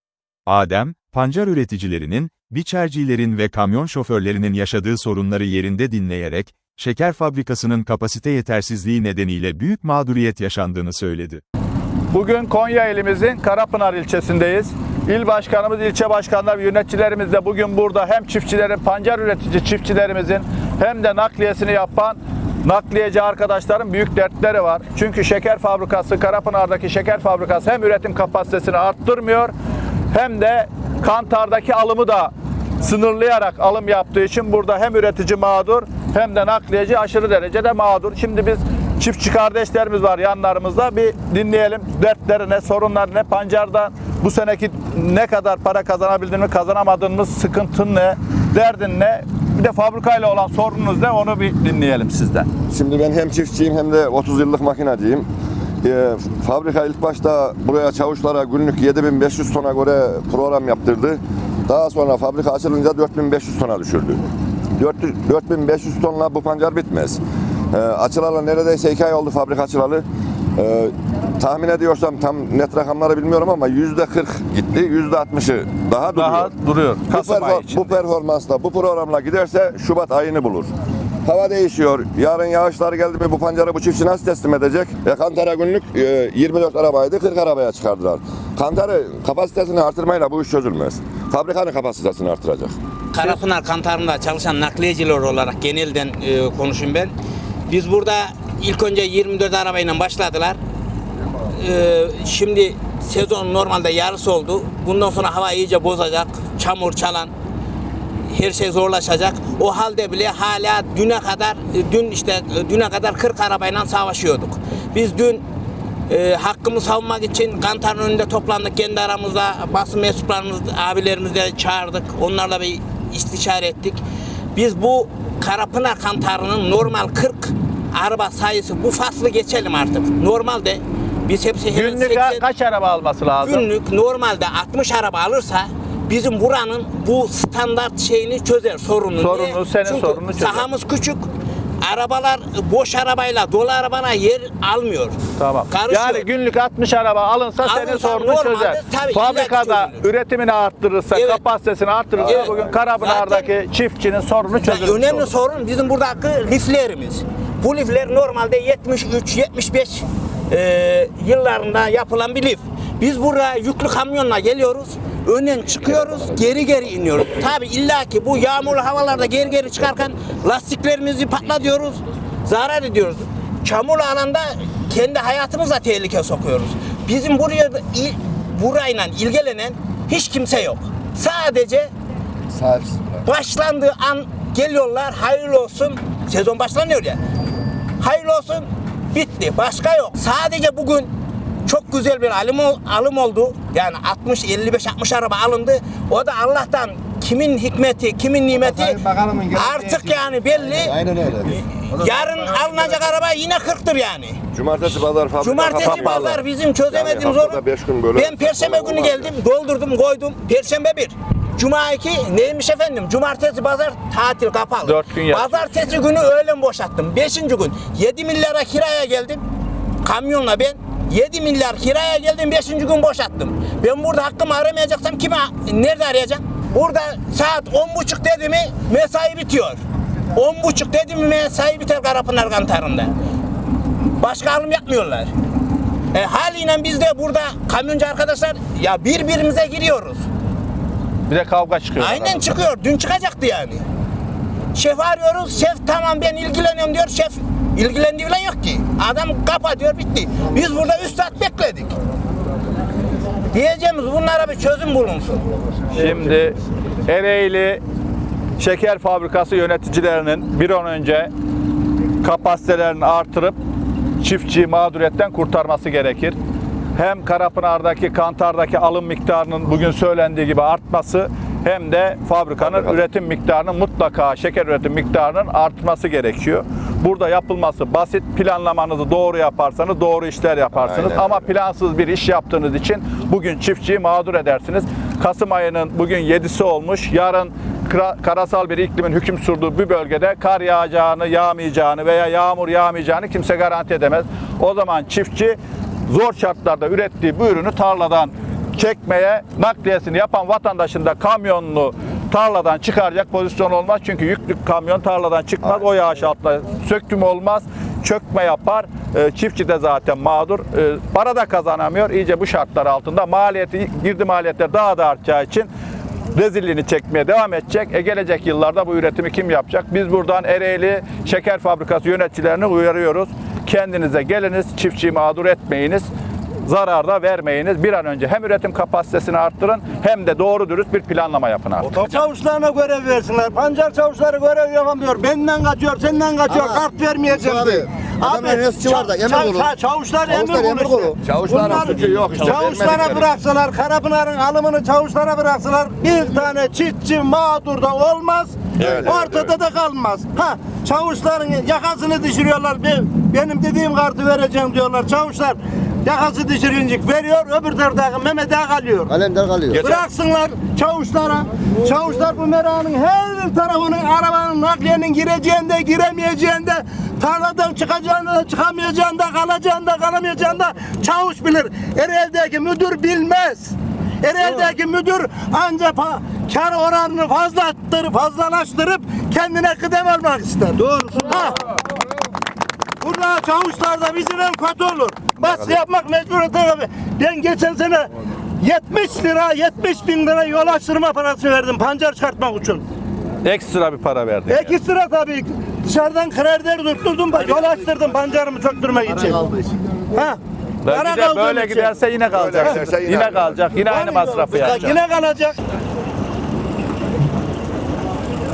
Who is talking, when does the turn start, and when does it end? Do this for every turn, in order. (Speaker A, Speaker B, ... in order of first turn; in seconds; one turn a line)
Speaker A: 0.5-11.4
Speaker B: 12.1-29.5
Speaker B: 30.1-52.5
Speaker C: 52.7-55.3
Speaker C: 55.8-64.2
Speaker C: 64.8-70.0
Speaker C: 70.6-76.5
Speaker B: 76.1-78.0
Speaker C: 77.1-80.7
Speaker C: 81.2-92.8
Speaker D: 93.1-97.1
Speaker D: 97.7-100.6
Speaker D: 101.5-107.3
Speaker D: 108.3-115.4
Speaker D: 116.1-124.0
Speaker D: 124.5-132.5
Speaker B: 131.7-133.7
Speaker D: 133.4-141.3
Speaker B: 139.2-140.7
Speaker D: 141.8-145.2
Speaker B: 145.4-155.3
Speaker D: 145.7-146.3
Speaker D: 147.6-150.0
Speaker D: 151.1-151.4
Speaker C: 152.2-152.8
Speaker D: 152.2-153.5
Speaker D: 154.6-181.9
Speaker C: 182.5-183.2
Speaker D: 183.2-187.2
Speaker D: 188.0-191.1
Speaker D: 191.7-204.4
Speaker C: 204.5-209.3
Speaker D: 205.4-207.6
Speaker B: 205.8-206.3
Speaker D: 208.1-219.4
Speaker B: 214.8-215.8
Speaker D: 220.0-229.8
Speaker D: 230.3-233.1
Speaker D: 234.2-235.3
Speaker D: 236.1-240.2
Speaker B: 241.3-242.4
Speaker D: 242.0-243.8
Speaker D: 244.8-251.9
Speaker D: 253.5-255.4
Speaker B: 255.9-257.8
Speaker B: 258.6-261.3
Speaker B: 262.2-263.6
Speaker B: 264.2-266.4
Speaker B: 266.9-315.7
Speaker C: 272.6-273.0
Speaker C: 280.7-281.5
Speaker B: 316.3-326.1
Speaker B: 326.7-332.2
Speaker E: 331.9-359.1
Speaker F: 336.5-336.8
Speaker F: 337.4-339.7
Speaker F: 340.3-341.2
Speaker C: 341.2-343.3
Speaker C: 348.8-349.6
Speaker F: 359.2-359.6
Speaker C: 359.7-360.1
Speaker E: 359.8-381.6
Speaker E: 383.0-392.9
Speaker B: 385.4-385.7
Speaker B: 393.4-394.7
Speaker E: 394.5-399.5
Speaker E: 400.1-401.9
Speaker B: 400.9-405.0
Speaker C: 402.3-403.6
Speaker E: 403.9-405.6